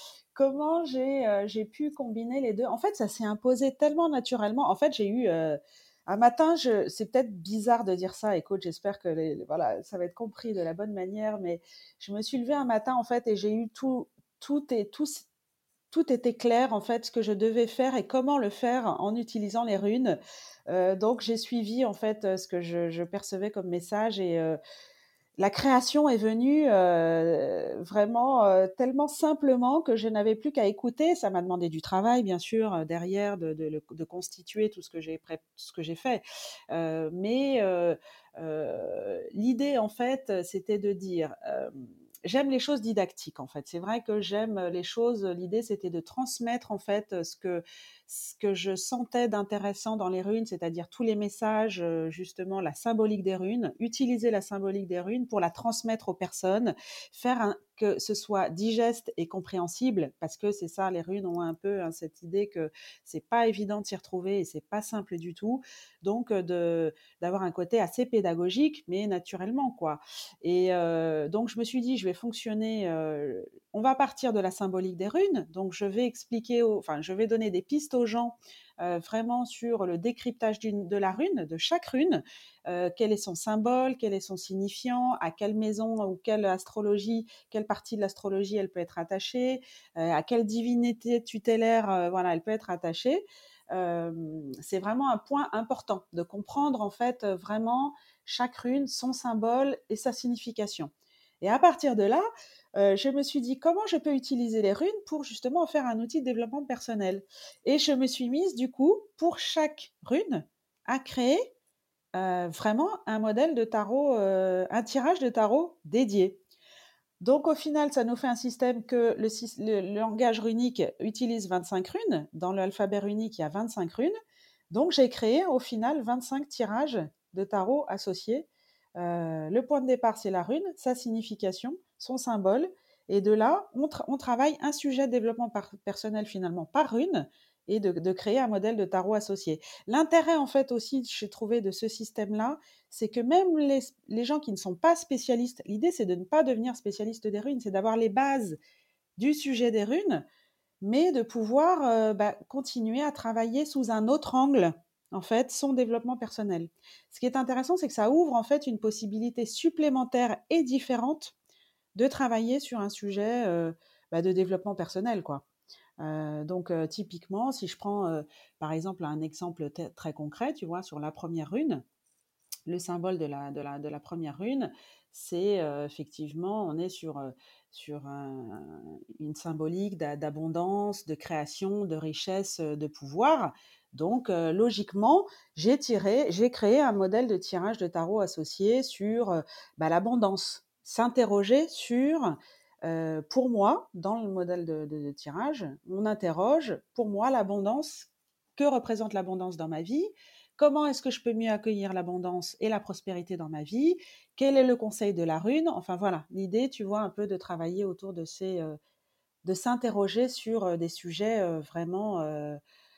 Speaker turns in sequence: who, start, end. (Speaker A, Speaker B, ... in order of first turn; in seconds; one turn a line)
Speaker A: 0.3-15.3
Speaker A: 15.9-20.2
Speaker A: 20.7-24.6
Speaker A: 25.4-102.2
Speaker A: 102.8-111.5
Speaker A: 112.1-116.4
Speaker A: 117.2-124.1
Speaker A: 124.7-148.6
Speaker A: 149.2-150.2
Speaker A: 150.8-161.3
Speaker A: 161.9-165.4
Speaker A: 166.0-171.8
Speaker A: 172.7-208.8
Speaker A: 209.4-212.6